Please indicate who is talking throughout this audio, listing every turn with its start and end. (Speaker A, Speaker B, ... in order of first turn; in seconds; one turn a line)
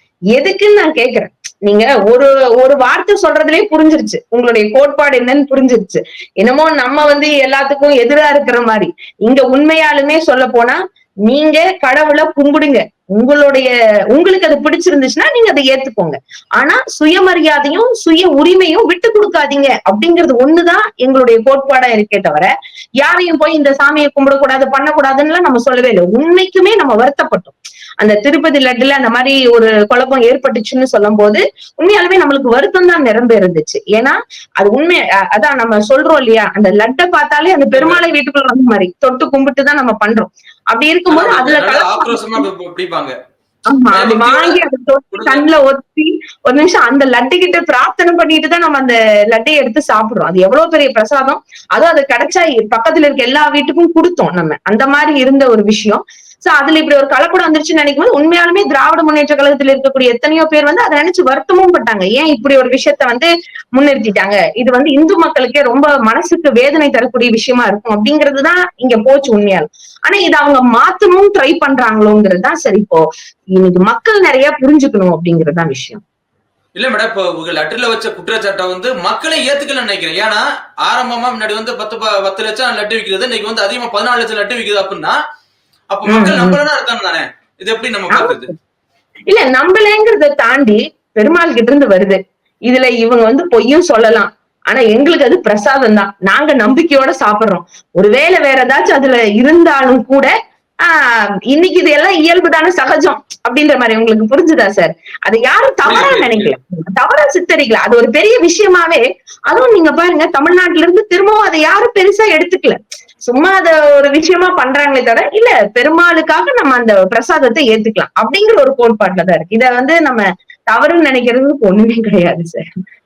Speaker A: 0.3-42.5
Speaker B: 37.8-38.0
Speaker B: 41.1-43.1
Speaker A: 43.7-73.0
Speaker B: 43.9-44.6
Speaker B: 45.1-45.5
Speaker A: 73.6-76.0
Speaker B: 76.8-85.2
Speaker B: 85.9-88.5
Speaker A: 86.1-86.6
Speaker A: 88.1-88.6
Speaker A: 89.3-100.3
Speaker A: 100.8-122.7
Speaker B: 105.8-106.5